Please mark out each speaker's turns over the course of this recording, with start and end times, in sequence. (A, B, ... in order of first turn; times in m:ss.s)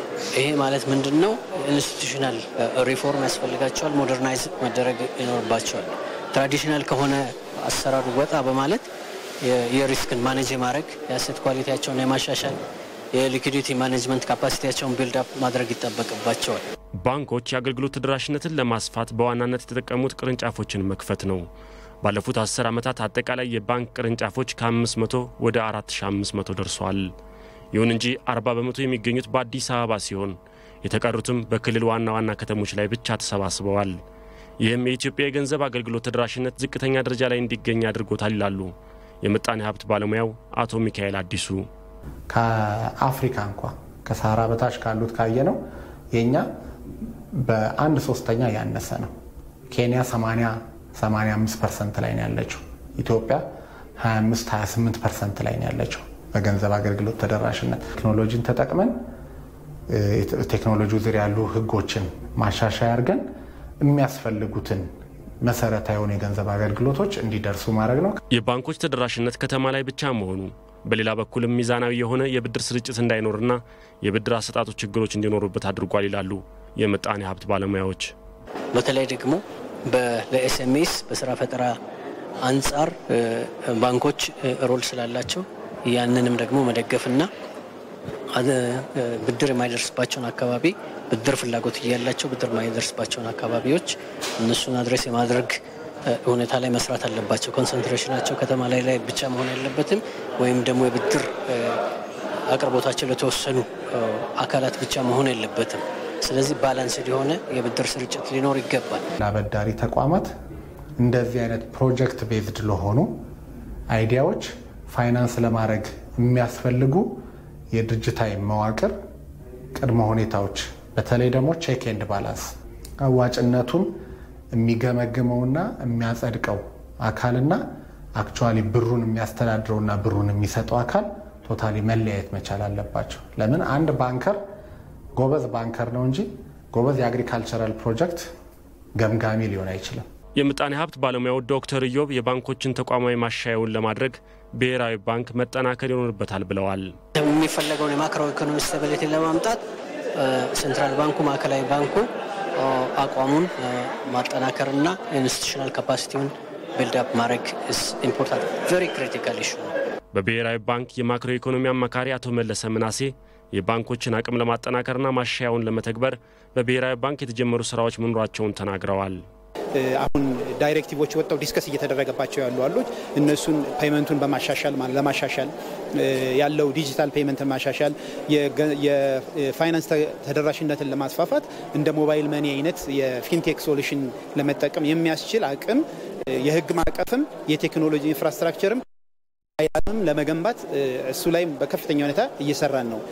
0:00.3-0:08.9 A
0:09.4-0:12.6 A
0:13.1-0:16.6 A
0:17.0-0:21.5 B
0:22.0-0:27.1 B
0:27.7-0:34.0 B
0:34.6-0:41.7 B
0:42.3-0:45.6 C
0:46.1-0:46.5 C
0:47.3-0:49.1 C
0:49.7-0:53.4 C
0:54.0-0:59.0 C
0:59.9-1:03.2 C
1:03.8-1:04.9 C
1:05.4-1:08.2 C
1:08.3-1:18.1 B
1:18.7-1:21.8 A
1:22.4-1:27.3 A
1:28.3-1:35.6 A
1:36.1-1:41.8 A
1:42.5-1:49.0 A
1:49.2-1:50.3 C
1:51.0-1:53.1 C
1:53.9-1:57.1 C
1:57.7-1:58.9 C
1:59.8-2:02.5 C
2:03.0-2:03.9 C
2:04.5-2:07.6 C
2:08.2-2:14.4 C
2:15.2-2:18.3 C
2:19.0-2:20.0 C
2:20.4-2:27.0 B
2:27.2-2:29.6 A
2:30.2-2:39.7 A
2:40.1-2:49.2 B
2:49.8-3:08.8 D
3:09.6-3:13.0 D